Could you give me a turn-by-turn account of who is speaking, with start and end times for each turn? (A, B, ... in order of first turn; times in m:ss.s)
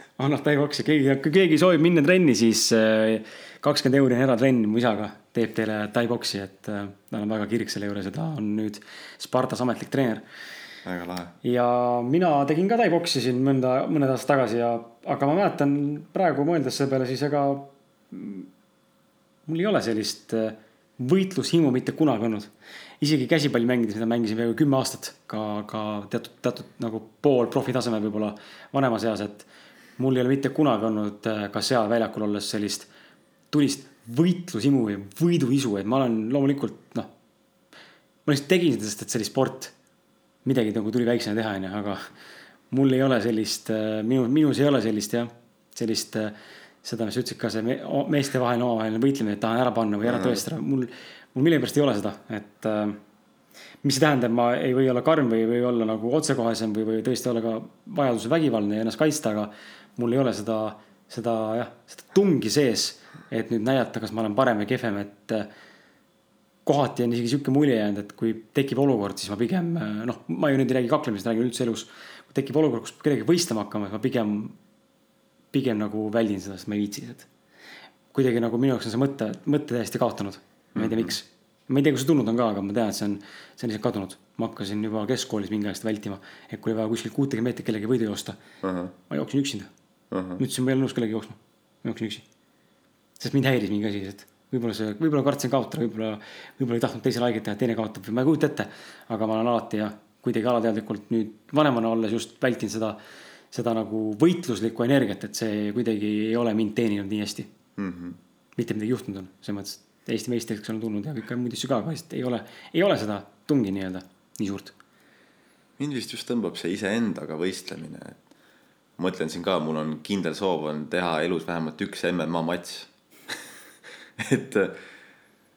0:00.2-0:10.2 A
0:10.8-0:11.3 B
0:11.4-0:18.5 A
0:19.5-0:29.5 A
0:30.0-0:32.9 A
0:33.5-0:37.1 A
0:38.2-0:39.7 A
0:40.4-0:42.0 A
0:42.7-0:46.3 A
0:46.8-0:53.0 A
0:50.0-0:50.4 B
0:53.8-1:05.5 A
1:06.6-1:14.6 A
1:15.5-1:17.3 A
1:18.1-1:28.4 A
1:20.7-1:21.1 B
1:28.6-1:28.9 B
1:29.1-1:29.7 A
1:30.1-1:30.4 B
1:30.4-1:32.2 A
1:33.2-1:43.0 A
1:43.5-1:47.5 A
1:47.8-1:48.2 B
1:48.6-1:54.7 A
1:55.8-1:58.2 B
1:59.0-2:03.4 B
2:04.2-2:04.8 B